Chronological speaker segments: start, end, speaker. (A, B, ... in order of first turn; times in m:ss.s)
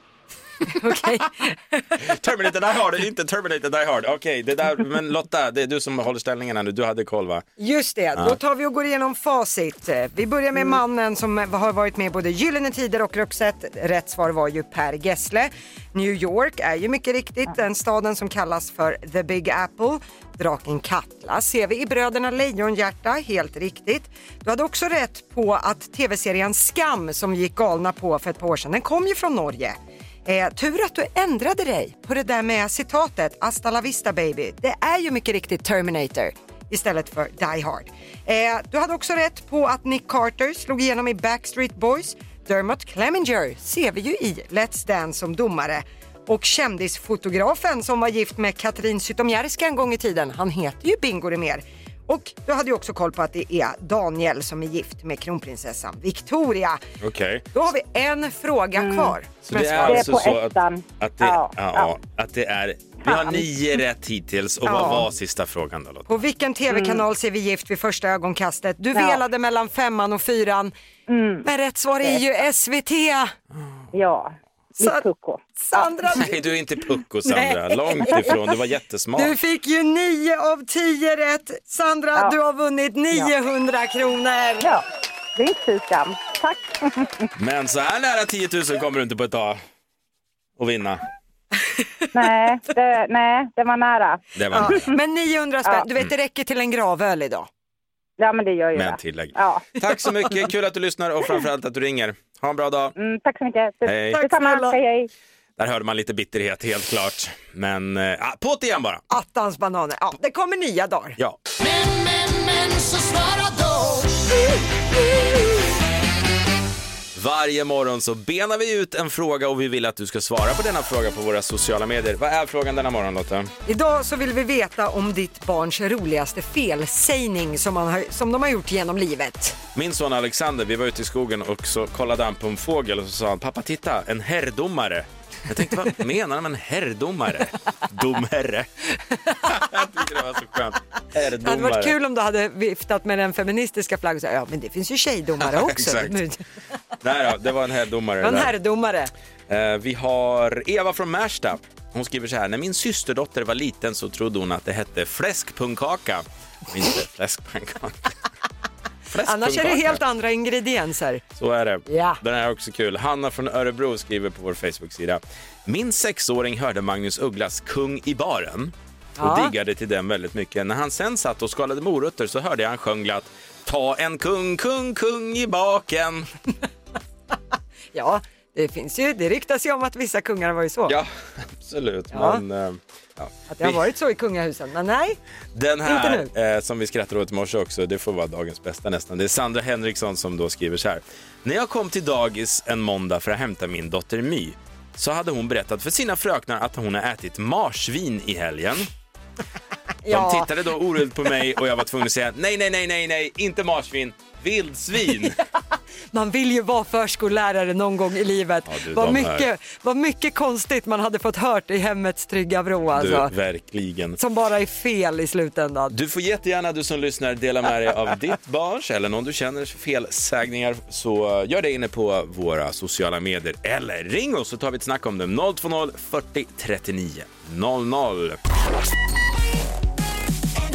0:00.7-0:02.0 A
0:02.0-0:07.4 B
0:07.6-0:56.8 A
0:57.0-0:57.5 B
0:57.5-1:00.2 A
0:58.8-0:59.1 C
0:59.4-1:06.1 B
0:59.7-1:01.9 C
1:03.1-1:03.4 C
1:04.6-1:05.1 A
1:06.1-1:10.7 A
1:06.7-1:07.0 C
1:08.9-1:09.2 C
1:11.1-1:11.4 C
1:11.4-1:13.3 A
1:13.9-1:15.8 C
1:15.6-1:16.4 A
1:16.2-1:19.3 B
1:17.2-1:18.4 A
1:19.2-1:24.7 A
1:25.4-1:27.3 C
1:27.4-1:29.6 B
1:30.6-1:31.0 B
1:31.6-1:32.0 A
1:32.1-1:34.8 C
1:34.4-1:34.9 B
1:34.5-1:37.5 A
1:38.2-1:39.6 C
1:38.7-1:42.9 B
1:43.0-1:45.1 C
1:43.8-1:44.2 B
1:44.1-1:44.8 A
1:45.6-1:49.0 B
1:49.1-1:51.2 A
1:51.7-1:54.0 D
1:54.9-1:55.6 A
1:57.1-2:03.5 B
2:03.6-2:09.6 A
2:09.7-2:18.7 B
2:19.4-2:21.9 B
2:21.4-2:26.4 A
2:25.4-2:26.2 B
2:27.0-2:28.5 B
2:28.2-2:29.1 A
2:29.5-2:38.1 B
2:39.1-2:40.0 B
2:39.2-2:41.2 A
2:41.3-2:56.3 B
2:41.9-2:42.2 A
2:49.2-2:49.5 A
2:57.9-3:00.9 A
3:00.9-3:03.8 B
3:02.1-3:02.4 A
3:03.5-3:05.2 A
3:05.5-3:18.9 B
3:05.8-3:06.3 A
3:20.0-3:20.5 A
3:20.1-3:25.4 B
3:26.1-3:33.3 A
3:28.7-3:29.5 B
3:33.0-3:34.2 B
3:34.2-3:35.9 A
3:35.9-3:48.4 B